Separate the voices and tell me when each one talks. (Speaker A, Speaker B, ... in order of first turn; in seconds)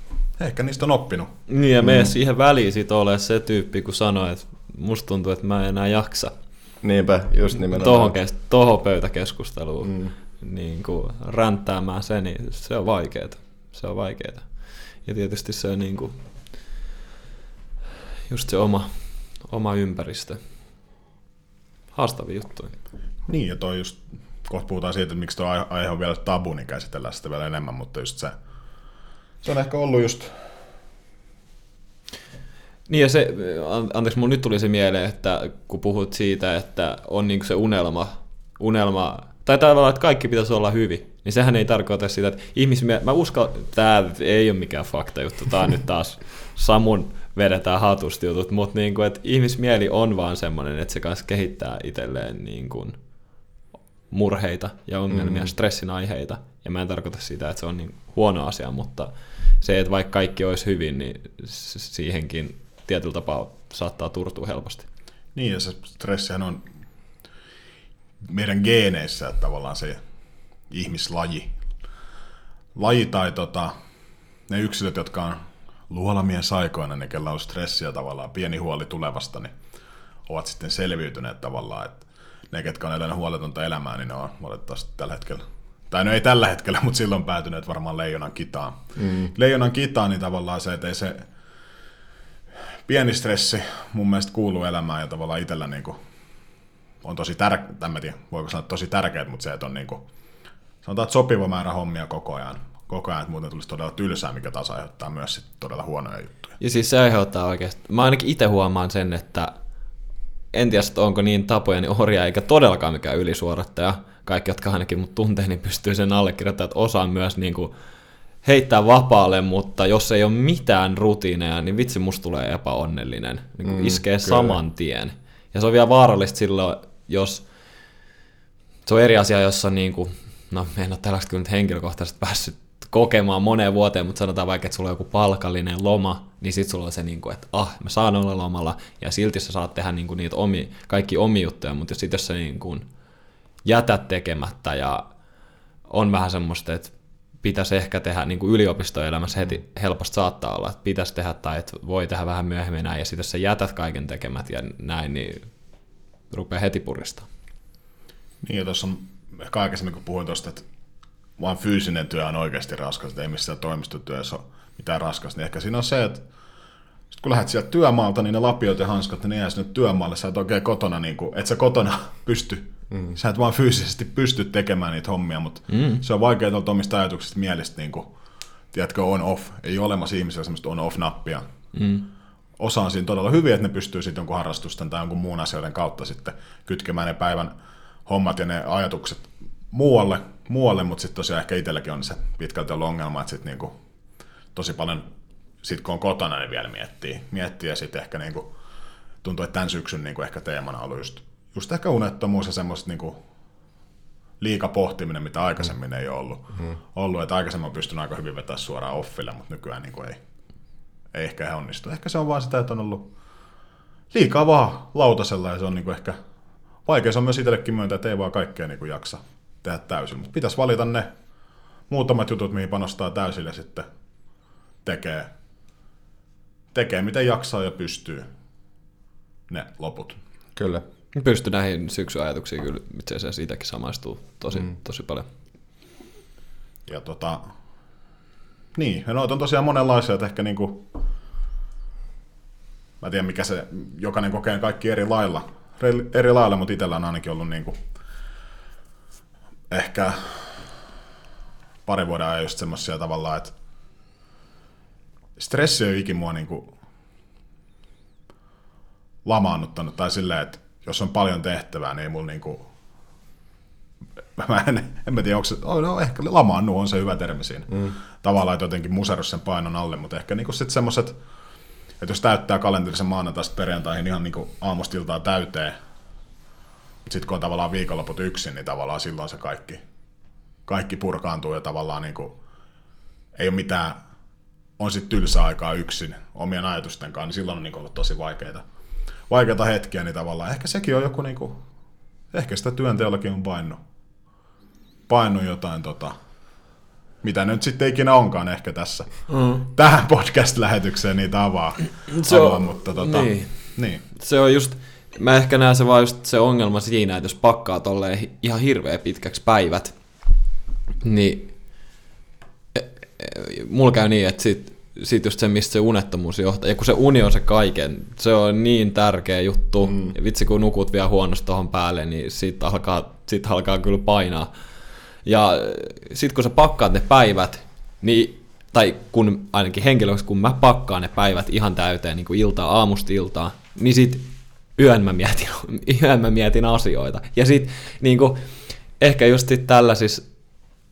Speaker A: 0.4-1.3, 23.3-28.3, 29.4-30.4, 65.3-66.6, 68.2-70.0, 70.7-71.6, 72.8-73.7, 74.5-79.5, 80.2-91.3, 92.8-96.0, 97.0-100.0, 100.8-106.5, 158.4-160.6, 161.4-166.2, 167.1-178.1, 178.7-181.4, 182.6-187.5, 188.1-193.7, 194.5-195.1, 195.6-198.5, 199.2-203.2, 204.4-210.2, 211.1-213.1, 214.1-216.2, 216.8-221.1, 221.9-223.8, 224.8-225.3, 226.7-228.3, 229.5-230.2, 236.8-237.4, 238.8-240.8, 243.0-247.8, 249.7-250.7, 251.8-253.5, 255.4-256.7, 259.2-262.7, 264.4-271.2, 272.0-275.7, 277.1-279.8, 280.7-282.4, 283.3-284.0, 284.8-288.6, 289.3-291.6, 292.3-293.8, 295.1-296.1, 297.2-304.0
Speaker B: 1.5-6.3, 7.7-14.5, 15.0-16.1, 18.3-18.9, 19.4-20.4, 21.9-22.7, 32.9-53.0, 54.1-64.8, 106.6-109.5, 110.5-117.7, 118.4-127.5, 128.8-142.8, 143.6-145.1, 145.9-155.5, 156.3-157.3, 175.7-176.0, 181.7-182.1, 231.2-235.3, 299.3-299.6, 302.1-309.9, 311.0-311.5, 312.7-324.5, 325.2-340.2
Speaker C: 1.8-2.1, 6.8-8.2, 9.8-10.1, 55.1-55.5, 89.0-89.3, 123.6-124.6, 230.6-230.8